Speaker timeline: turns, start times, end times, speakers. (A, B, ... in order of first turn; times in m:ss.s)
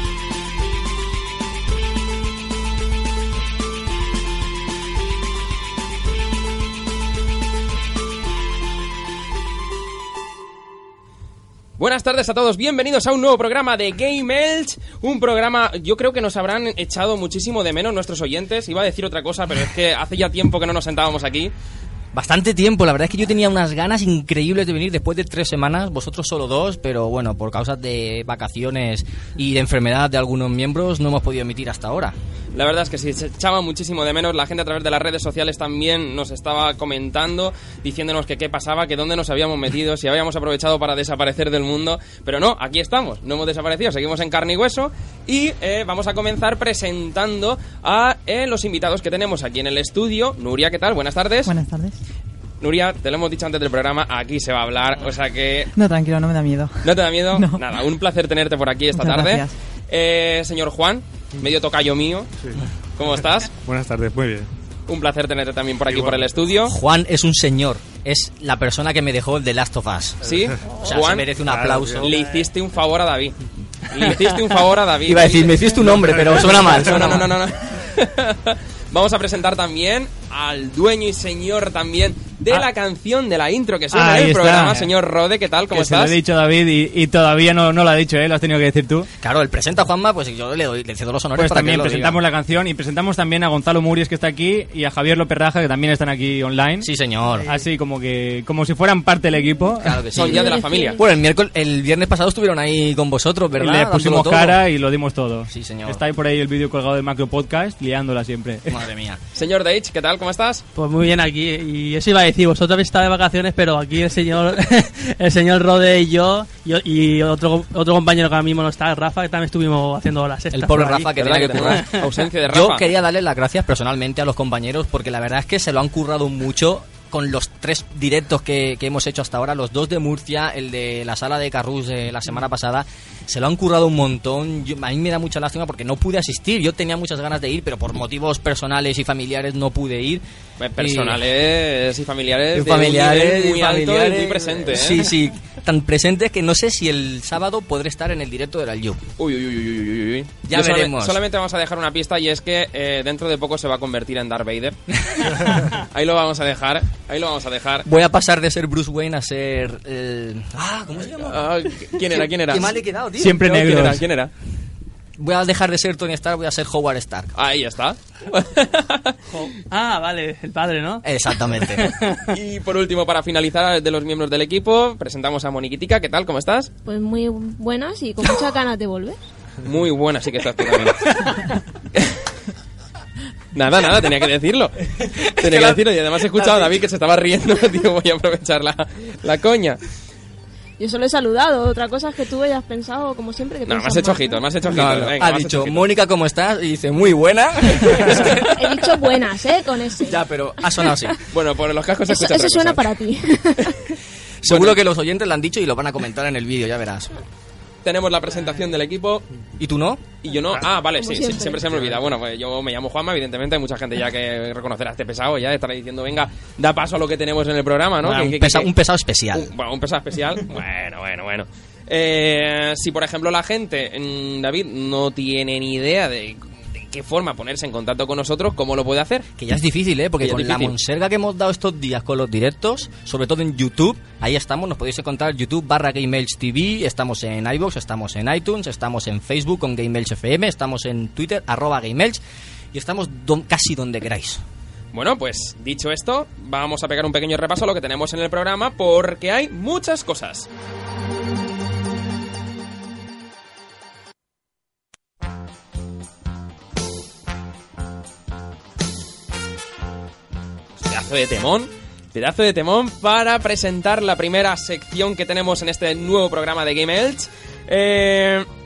0:11.8-0:21.5 A
0:22.1-0:32.1 B
0:32.5-0:51.6 A
0:51.4-0:52.0 C
0:52.6-0:55.7 A
0:55.7-0:57.6 C
0:56.8-1:02.3 A
0:58.9-0:59.6 C
1:03.0-1:03.5 A
1:03.6-1:04.5 D
1:04.9-1:06.8 A
1:05.8-1:06.3 D
1:06.6-1:10.2 B
1:10.2-1:11.3 A
1:10.7-1:12.1 B
1:11.4-1:12.1 D
1:12.0-1:13.4 A
1:12.1-1:12.4 E
1:13.9-1:26.2 A
1:15.0-1:17.3 B
1:15.8-1:17.3 D
1:23.9-1:24.9 F
1:25.7-1:29.1 F
1:29.2-1:32.2 B
1:31.3-1:36.9 F
1:36.8-1:37.5 B
1:37.4-1:40.1 F
1:39.8-1:44.6 B
1:40.1-1:41.0 A
1:40.2-1:41.1 G
1:43.6-1:48.8 F
1:45.5-1:46.0 B
1:48.7-1:49.2 B
1:49.3-1:50.6 A
1:50.8-2:02.0 E
2:00.5-2:20.2 B
2:01.1-2:02.9 A
2:20.6-2:25.1 A
2:20.8-2:21.2 B
2:22.5-2:29.0 B
2:29.2-2:34.8 A
2:30.4-2:31.2 B
2:35.0-2:35.5 B
2:35.4-2:37.8 A
2:37.8-2:43.4 B
2:41.2-2:42.7 A
2:43.2-2:44.0 F
2:43.3-2:44.3 A
2:45.2-2:47.3 B
2:47.4-2:49.2 A
2:49.3-2:51.0 E
2:51.0-2:51.9 B
2:51.8-2:52.2 E
2:52.3-2:56.7 A
2:56.8-2:59.2 G
2:59.6-3:02.3 A
3:03.5-3:09.8 A
3:05.1-3:05.8 B
3:06.3-3:06.7 B
3:10.8-3:14.4 G
3:13.6-3:15.9 A
3:14.6-3:18.5 B
3:18.5-3:21.1 G
3:20.0-3:21.2 B
3:21.3-3:22.9 A
3:22.1-3:23.9 G
3:24.4-3:27.2 B
3:24.4-3:24.8 A
3:27.8-3:29.2 A
3:29.6-3:30.0 B
3:30.2-3:38.7 A
3:31.0-3:31.7 G
3:38.0-3:39.5 B
3:39.3-3:49.3 A
3:49.4-4:02.2 B
3:50.2-3:50.7 A
4:02.7-4:04.4 B
4:04.9-4:10.5 A
4:20.8-4:28.5 A